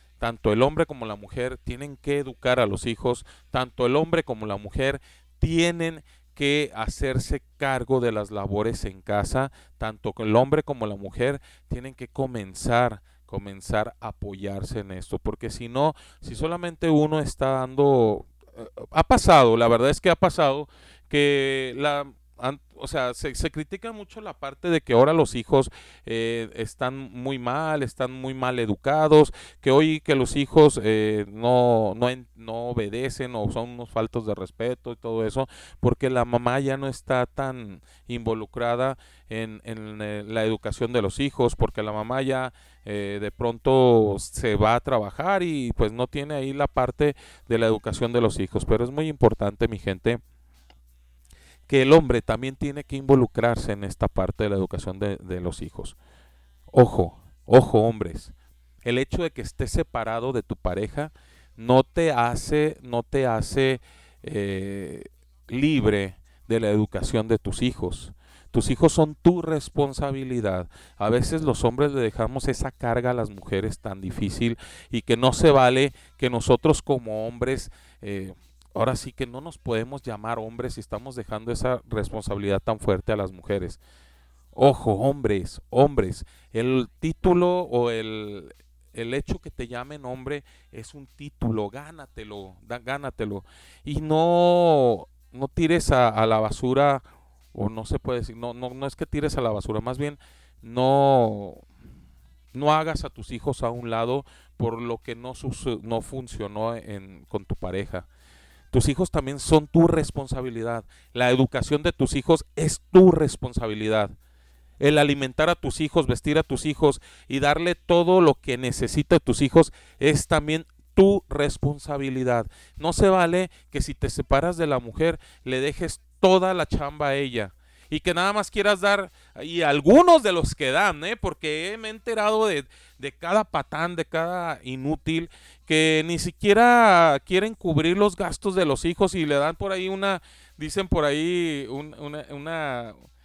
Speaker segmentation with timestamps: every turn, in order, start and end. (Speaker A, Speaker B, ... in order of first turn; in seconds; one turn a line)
Speaker A: 0.2-50.2
Speaker A: 51.7-56.0
Speaker A: 56.7-58.3
Speaker A: 58.8-83.8
Speaker A: 84.5-101.6
Speaker A: 102.5-108.1
Speaker A: 108.7-114.1
Speaker A: 114.8-143.0